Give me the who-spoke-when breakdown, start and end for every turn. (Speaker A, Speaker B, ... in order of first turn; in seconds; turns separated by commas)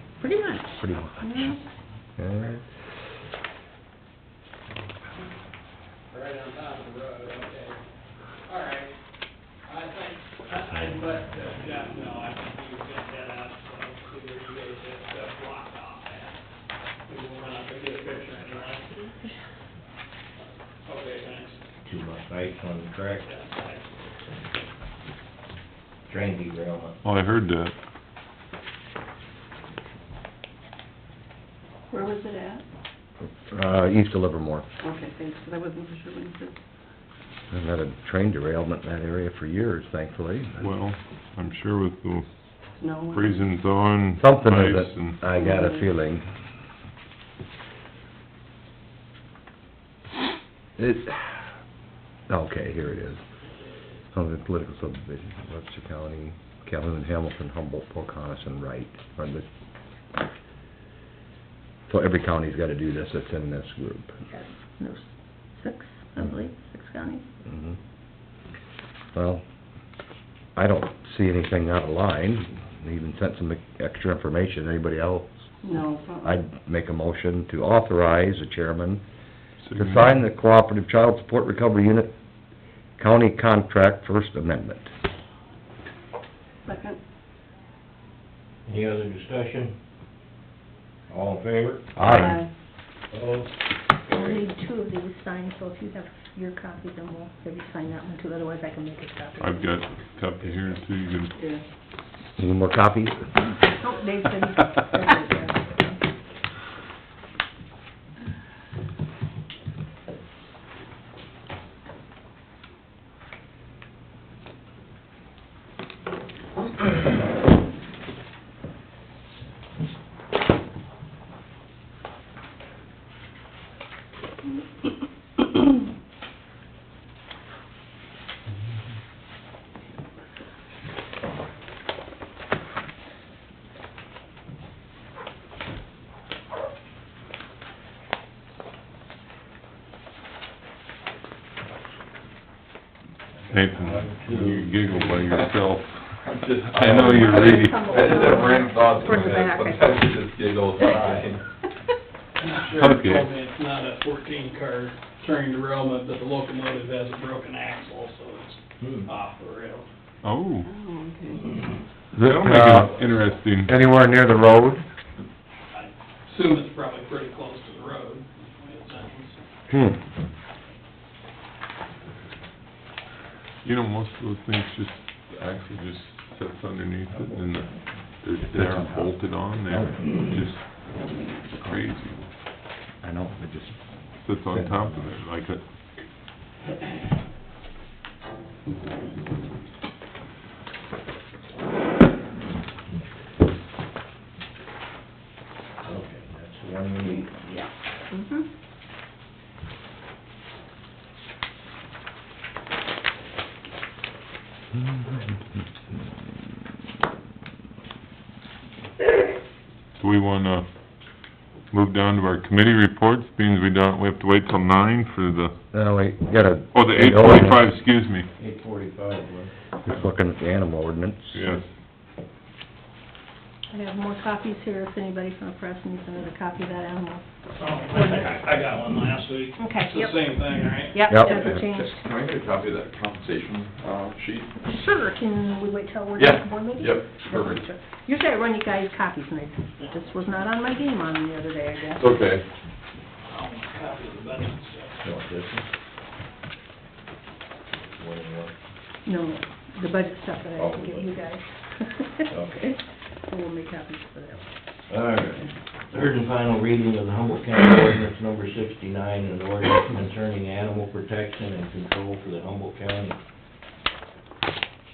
Speaker A: 0.2-0.8, Speaker B: 0.8-1.5, Speaker C: 1.2-1.5, Speaker B: 2.2-2.6, Speaker D: 6.1-7.8, Speaker D: 8.4-8.9, Speaker D: 9.6-16.4, Speaker D: 17.1-19.0, Speaker D: 20.9-21.6, Speaker E: 21.8-23.3, Speaker D: 23.2-23.9, Speaker E: 26.1-27.0, Speaker F: 27.0-27.7, Speaker C: 31.9-32.6, Speaker B: 33.5-34.6, Speaker C: 34.8-36.5, Speaker B: 37.5-40.6, Speaker F: 40.6-42.3, Speaker C: 42.8-43.4, Speaker F: 43.1-45.2, Speaker B: 44.2-46.2, Speaker C: 45.3-45.8, Speaker B: 50.8-51.5, Speaker B: 52.3-53.2, Speaker B: 54.1-59.5, Speaker B: 61.9-64.1, Speaker A: 64.3-67.2, Speaker B: 67.4-67.8, Speaker B: 69.1-69.4, Speaker B: 70.5-75.4, Speaker C: 75.6-76.4, Speaker B: 76.2-79.0, Speaker F: 79.6-80.2, Speaker B: 79.8-82.1, Speaker B: 83.0-84.9, Speaker C: 86.7-87.0, Speaker E: 88.7-89.7, Speaker E: 91.1-92.2, Speaker B: 91.9-92.4, Speaker C: 92.1-92.5, Speaker E: 93.1-93.4, Speaker A: 94.1-99.7, Speaker F: 99.4-101.4, Speaker C: 101.4-101.6, Speaker B: 102.4-103.2, Speaker A: 103.7-106.0, Speaker F: 143.5-147.9, Speaker G: 144.1-145.5, Speaker G: 146.2-151.4, Speaker A: 147.2-150.0, Speaker D: 152.4-159.9, Speaker F: 152.8-153.3, Speaker E: 158.8-159.1, Speaker F: 160.2-160.7, Speaker C: 160.6-161.5, Speaker F: 162.1-163.7, Speaker B: 162.3-164.8, Speaker D: 165.7-169.3, Speaker B: 169.7-170.0, Speaker F: 173.6-182.2, Speaker B: 178.5-180.3, Speaker B: 183.0-183.8, Speaker F: 184.2-185.6, Speaker B: 184.4-185.0, Speaker E: 195.8-197.4, Speaker A: 197.3-198.5, Speaker F: 210.0-210.7, Speaker F: 211.7-215.5, Speaker B: 215.7-217.6, Speaker F: 216.7-218.3, Speaker E: 218.4-219.5, Speaker B: 219.8-221.4, Speaker F: 221.3-221.7, Speaker A: 223.7-227.2, Speaker D: 227.6-230.9, Speaker A: 229.6-230.3, Speaker A: 230.9-232.0, Speaker B: 231.1-231.5, Speaker G: 231.2-234.5, Speaker A: 234.6-242.1, Speaker G: 236.2-237.6, Speaker G: 242.0-242.4, Speaker D: 243.3-244.9, Speaker E: 245.0-245.7, Speaker E: 247.9-248.5, Speaker A: 249.0-254.4, Speaker E: 250.6-251.1, Speaker E: 252.3-252.6, Speaker E: 254.9-263.2